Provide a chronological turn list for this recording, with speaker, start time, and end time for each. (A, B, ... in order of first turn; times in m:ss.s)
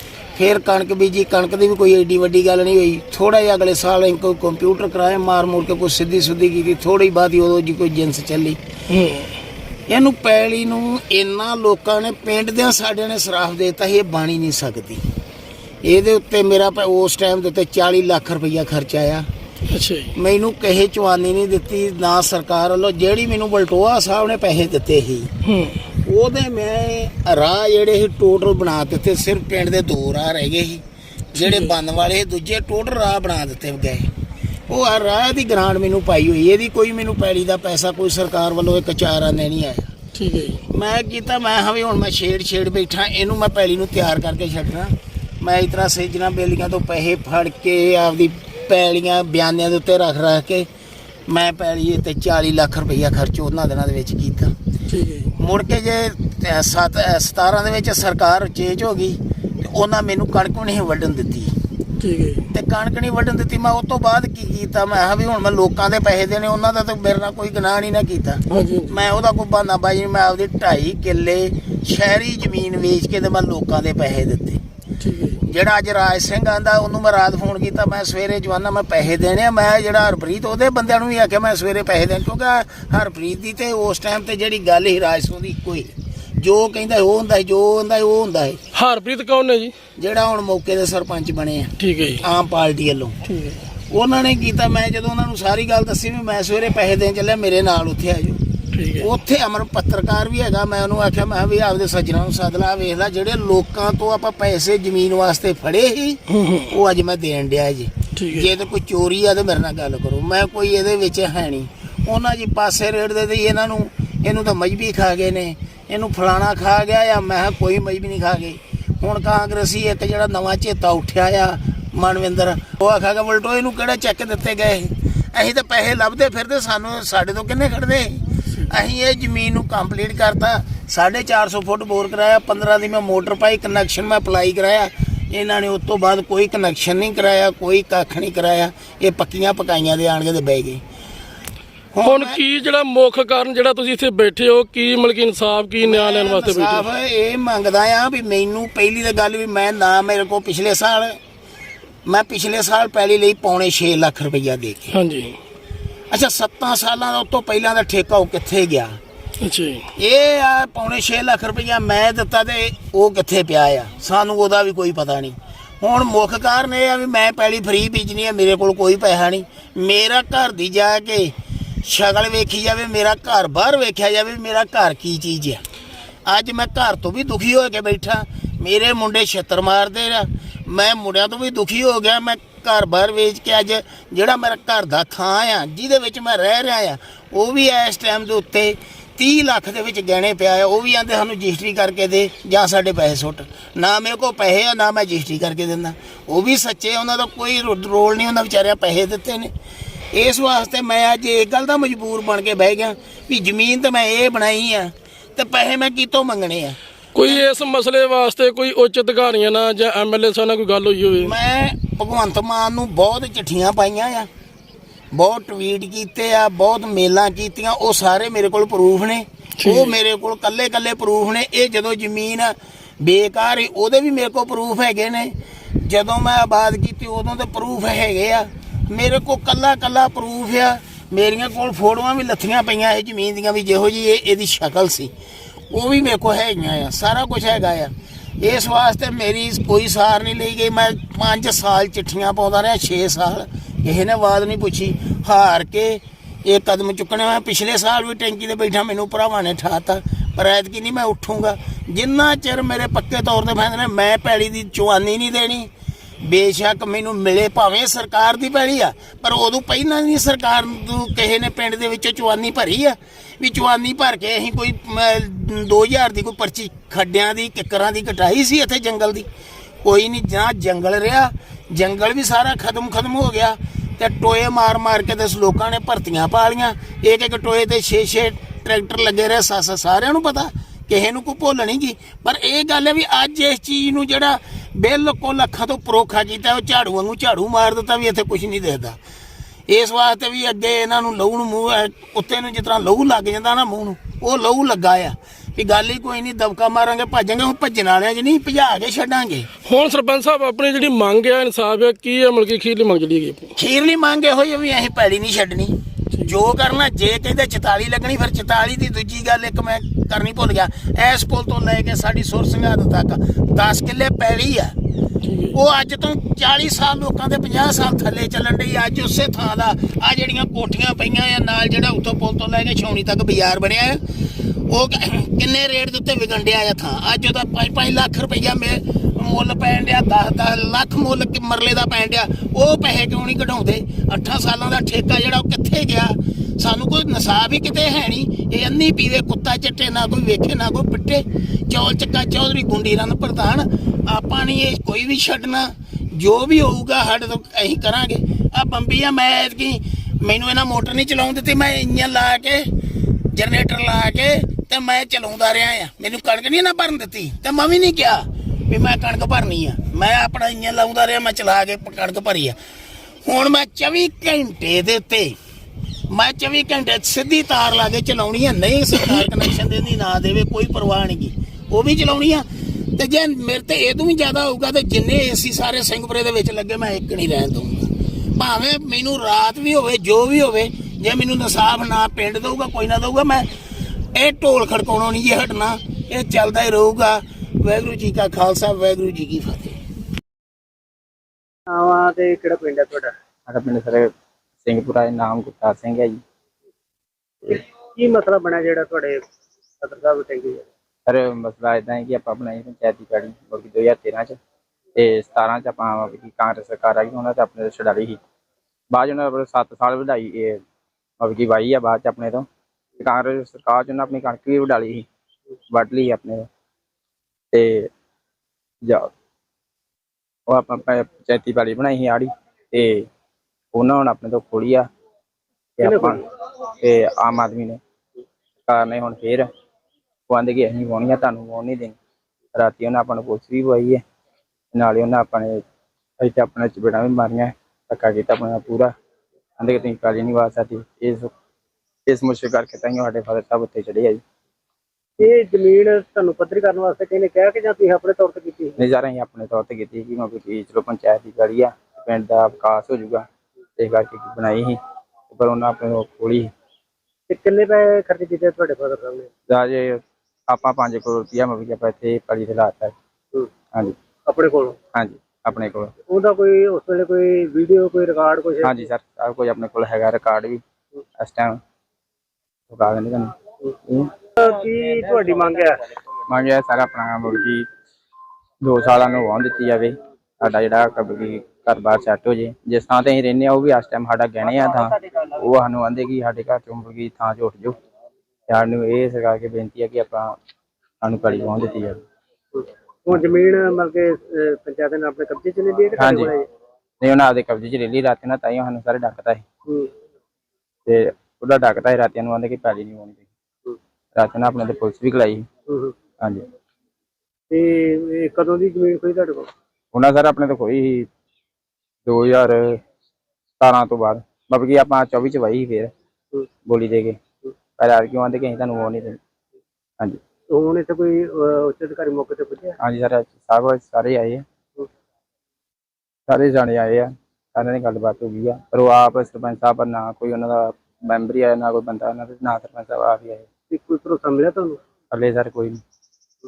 0:00.4-0:08.6 A
0:08.9-0:09.2 B
0:09.9-0:15.0 A
0:15.8-0:19.2 A
0:19.7-0:20.1 B
0:20.2-0:25.3 A
0:25.4-0:25.8 B
0:26.0-0:30.8 A
0:31.3-0:34.1 A
0:31.4-0:31.7 B
0:34.7-0:39.9 A
0:40.2-0:40.6 B
0:40.7-0:50.7 A
0:51.3-0:54.5 A
0:54.9-0:55.3 B
0:55.4-1:01.5 A
1:02.0-1:02.4 B
1:02.5-1:14.6 A
1:08.5-1:09.0 B
1:15.0-1:15.4 B
1:15.4-1:28.6 A
1:28.7-1:29.7 B
1:30.0-1:33.1 A
1:31.8-1:32.2 B
1:33.2-1:33.6 B
1:33.9-1:38.4 A
1:38.7-1:39.1 B
1:39.0-2:20.8 A
1:46.4-1:46.7 B
1:48.2-1:48.5 B
2:21.9-2:22.4 A
2:22.0-2:26.8 B
2:25.8-2:31.2 A
2:32.1-2:35.0 A
2:34.9-2:35.4 B
2:36.1-2:39.0 A
2:39.4-2:39.8 B
2:40.0-2:55.6 A
2:56.3-3:19.5 A
3:20.1-3:27.5 A
3:27.2-3:31.4 B
3:31.2-3:34.3 A
3:35.1-3:55.1 A
3:39.6-3:39.9 B
3:55.7-4:15.7 A
4:16.2-4:29.3 A
4:29.8-4:49.0 A
4:49.7-4:59.5 A
4:59.6-5:03.5 B
5:03.6-5:14.8 A
5:15.2-5:15.6 B
5:15.5-5:24.0 A
5:24.7-5:52.7 A
5:53.3-6:02.6 A
6:03.2-6:05.4 A
6:06.1-6:23.5 A
6:24.1-6:29.8 A
6:31.7-6:33.1 C
6:33.5-6:34.1 D
6:34.6-6:36.2 D
6:37.4-6:39.2 C
6:39.8-6:40.6 C
6:41.1-6:44.4 D
6:45.0-6:48.2 D
6:48.9-6:50.6 D
6:51.2-6:52.5 D
6:53.0-6:55.0 D
6:55.7-6:56.5 D
6:57.5-6:57.9 D
6:58.8-6:59.1 D
7:00.5-7:03.1 D
7:03.7-7:04.9 D
7:05.8-7:06.2 D
7:05.8-7:06.2 C
7:06.8-7:07.8 D
7:08.7-7:09.5 D
7:10.3-7:12.0 D
7:12.6-7:14.0 D
7:14.7-7:15.6 D
7:16.2-7:18.9 D
7:19.6-7:21.3 D
7:22.1-7:24.2 D
7:25.2-7:28.8 C
7:28.8-7:33.3 D
7:33.8-7:34.8 D
7:35.3-7:36.5 D
7:37.3-7:39.3 C
7:39.5-7:42.9 D
7:44.3-7:44.8 C
7:44.9-7:45.9 D
7:46.1-7:48.9 C
7:48.6-7:50.6 D
7:51.2-7:51.6 D
7:52.7-7:53.3 D
7:53.8-7:54.1 D
7:54.4-7:55.8 C
7:56.3-7:57.7 D
7:58.6-8:07.8 D
8:08.5-8:10.4 D
8:11.0-8:12.0 D
8:12.5-8:16.5 C
8:16.0-8:16.3 D
8:17.0-8:19.4 D
8:19.7-8:19.9 C
8:20.9-8:23.2 D
8:24.2-8:25.5 D
8:25.7-8:26.0 C
8:26.2-8:26.5 D
8:27.5-8:29.5 C
8:29.9-8:31.1 D
8:32.1-8:32.8 D
8:33.6-8:35.9 D
8:36.7-8:37.2 D
8:37.8-8:39.2 D
8:40.5-8:42.8 C
8:42.8-8:44.4 D
8:46.3-8:53.5 D
8:53.7-8:54.8 C
8:55.1-8:55.8 D